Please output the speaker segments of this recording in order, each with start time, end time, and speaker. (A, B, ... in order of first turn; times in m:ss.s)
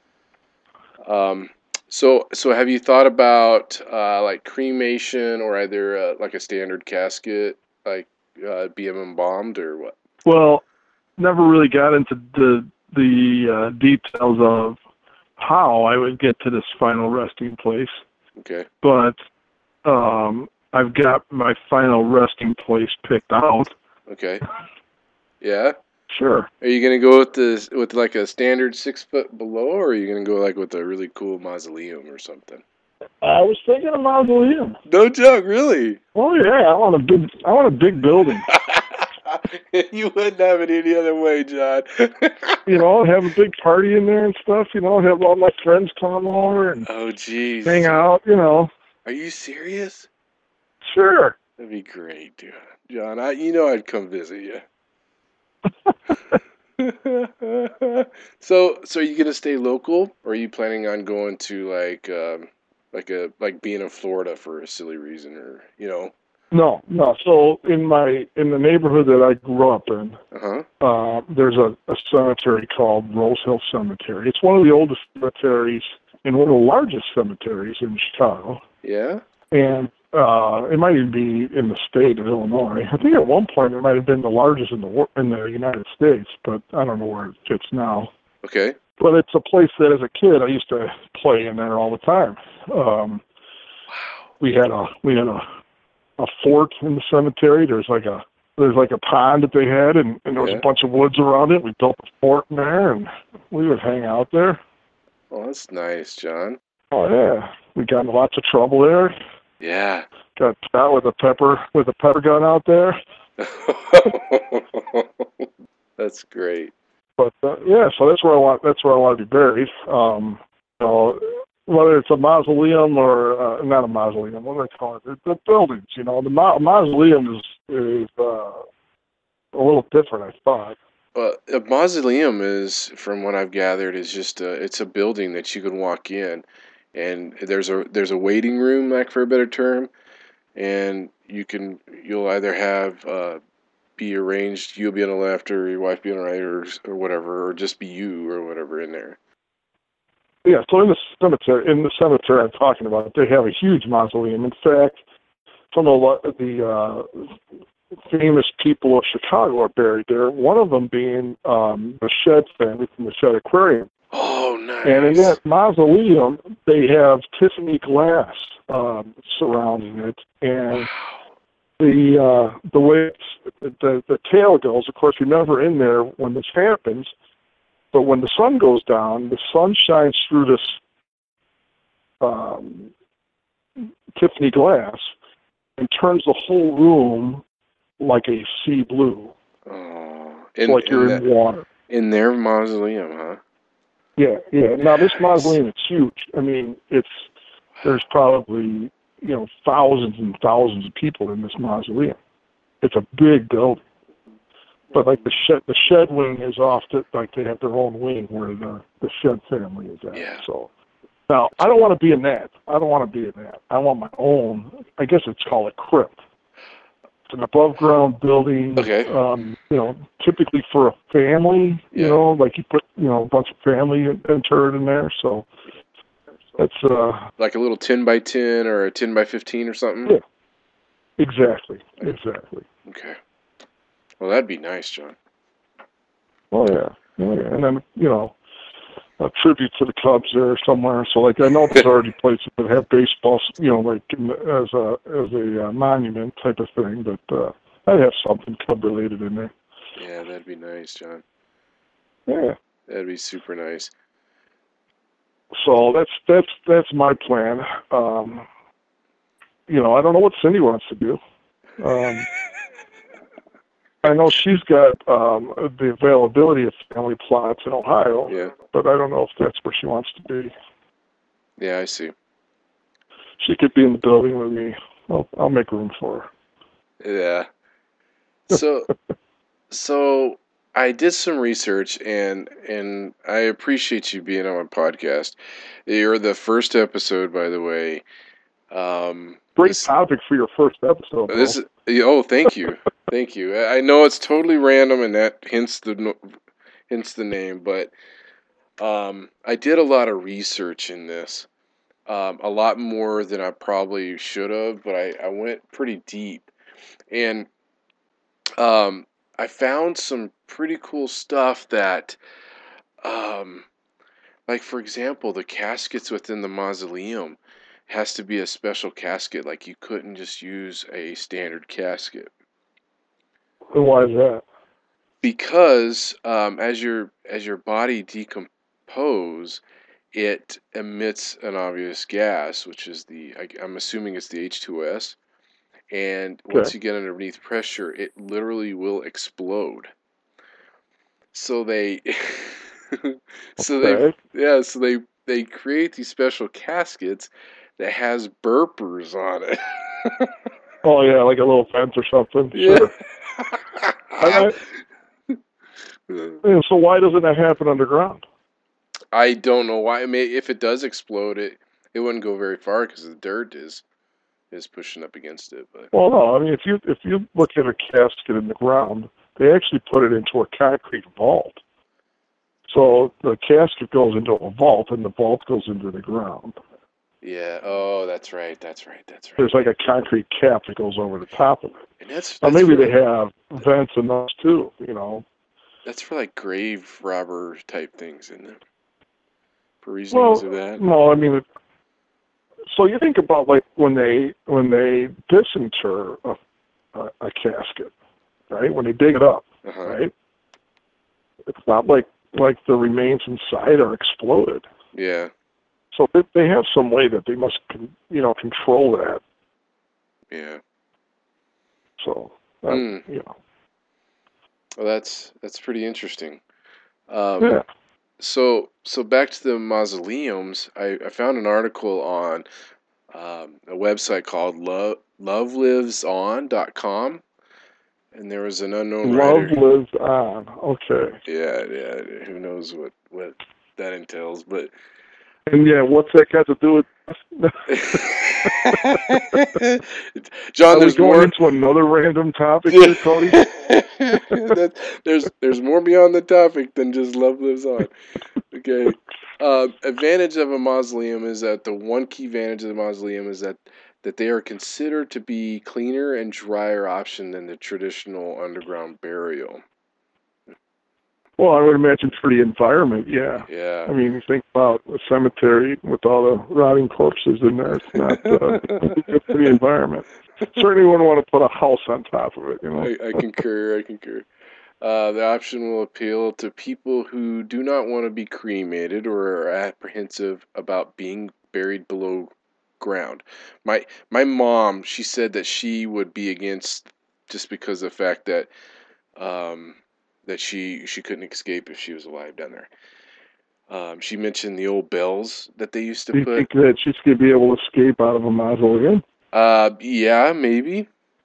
0:01.0-0:10.0 A
0:10.2-0:10.6 B
0:11.2-0:14.8 B
0:15.4-0:17.9 B
0:18.4-0:18.7 A
0:18.8-0:19.2 B
0:19.8-0:23.7 B
0:24.1-0:24.4 A
0:25.4-0:25.7 A
0:26.1-0:26.5 B
0:26.6-0:32.6 A
0:33.2-0:34.8 B
0:34.9-0:36.0 A
0:36.1-0:38.5 B
0:38.5-0:42.8 A
0:42.6-0:46.9 B
0:46.8-0:48.0 A
0:47.6-0:48.7 B
0:49.0-0:50.1 A
0:50.9-0:51.3 B
0:51.6-0:54.6 A
0:56.8-1:06.1 A
1:06.5-1:10.2 B
1:10.3-1:10.6 A
1:10.8-1:18.6 B
1:18.8-1:19.2 A
1:19.5-1:28.1 B
1:28.4-1:28.8 A
1:29.0-1:33.2 B
1:34.4-1:35.4 B
1:36.2-1:44.6 B
1:40.4-1:40.6 A
1:45.3-1:46.6 A
1:46.9-1:49.2 B
1:49.6-1:50.0 A
1:50.4-1:53.0 B
1:53.4-1:56.7 A
1:57.2-2:08.6 B
2:09.5-2:10.8 B
2:11.1-2:19.9 A
2:20.6-2:23.4 A
2:24.0-2:29.2 A
2:30.4-2:35.0 B
2:35.7-2:37.4 B
2:38.0-2:43.9 B
2:44.1-2:45.4 A
2:44.8-2:50.9 B
2:50.7-2:51.2 A
2:51.8-2:57.1 B
2:57.9-3:00.8 B
3:02.2-3:02.9 B
3:04.1-3:05.1 B
3:05.8-3:07.4 B
3:08.0-3:09.3 B
3:09.6-3:11.2 A
3:10.6-3:11.6 B
3:11.9-3:13.4 A
3:14.2-3:17.3 B
3:15.0-3:15.5 A
3:17.8-3:22.2 B
3:22.8-3:23.8 B
3:24.9-3:30.7 B
3:30.1-3:30.4 A
3:31.3-3:36.2 B
3:37.3-3:45.5 B
3:38.8-3:39.1 A
3:41.9-3:42.2 A
3:46.6-3:47.3 B
3:47.4-3:50.2 A
3:51.2-3:52.6 B
3:52.8-3:53.2 A
3:54.2-3:55.2 A
3:56.5-3:58.3 B
3:59.2-4:09.5 B
4:10.0-4:11.2 A
4:12.3-4:12.6 B
4:12.9-4:13.9 A
4:15.6-4:18.4 B
4:19.7-4:21.2 B
4:21.8-4:22.3 B
4:24.0-4:30.5 B
4:28.3-4:28.5 A
4:31.6-4:32.1 A
4:33.4-4:36.3 B
4:37.0-4:37.5 A
4:38.5-4:38.9 A
4:39.7-4:48.0 A
4:48.7-4:49.9 A
4:49.6-4:51.6 B
4:51.3-4:56.3 A
4:56.9-4:57.9 A
4:58.8-5:01.5 A
5:02.1-5:06.5 A
5:07.1-5:07.5 A
5:08.6-5:12.2 A
5:13.0-5:13.6 A
5:14.5-5:22.3 A
5:23.7-5:24.4 B
5:25.2-5:29.6 A
5:30.1-5:35.2 A
5:35.9-5:39.9 A
5:41.3-5:50.3 A
5:43.6-5:44.1 B
5:50.8-5:52.9 B
5:52.5-5:54.5 A
5:54.2-5:54.6 B
5:56.1-5:56.4 A
5:56.4-5:58.2 B
5:59.1-6:03.8 A
6:04.5-6:05.9 A
6:05.9-6:11.6 B
6:12.7-6:16.6 B
6:17.2-6:19.4 A
6:19.4-6:21.8 B
6:22.0-6:22.9 A
6:22.4-6:25.2 B
6:25.8-6:28.6 A
6:29.8-6:30.8 A
6:30.1-6:31.4 B
6:32.7-6:36.4 B
6:36.9-6:37.9 B
6:38.5-6:40.1 B
6:39.6-6:40.0 A
6:41.5-6:44.6 B
6:44.9-6:45.3 A
6:45.9-6:49.2 B
6:50.3-6:50.6 A
6:52.0-6:53.3 B
6:52.7-6:53.0 A
6:54.8-6:56.4 A
6:57.1-6:57.6 A
6:58.2-7:02.4 A
7:03.1-7:07.2 A
7:08.1-7:09.6 A
7:09.0-7:11.2 B
7:11.2-7:14.7 A
7:15.5-7:18.8 B
7:17.7-7:21.3 A
7:20.7-7:23.4 B
7:22.7-7:27.9 A
7:28.5-7:39.6 A
7:41.4-7:52.9 B
7:43.5-7:43.9 A
7:48.2-7:48.8 A
7:52.8-7:54.3 A
7:54.8-8:08.5 A
8:09.2-8:12.7 A
8:13.7-8:16.5 A
8:16.1-8:19.0 B
8:19.3-8:20.9 A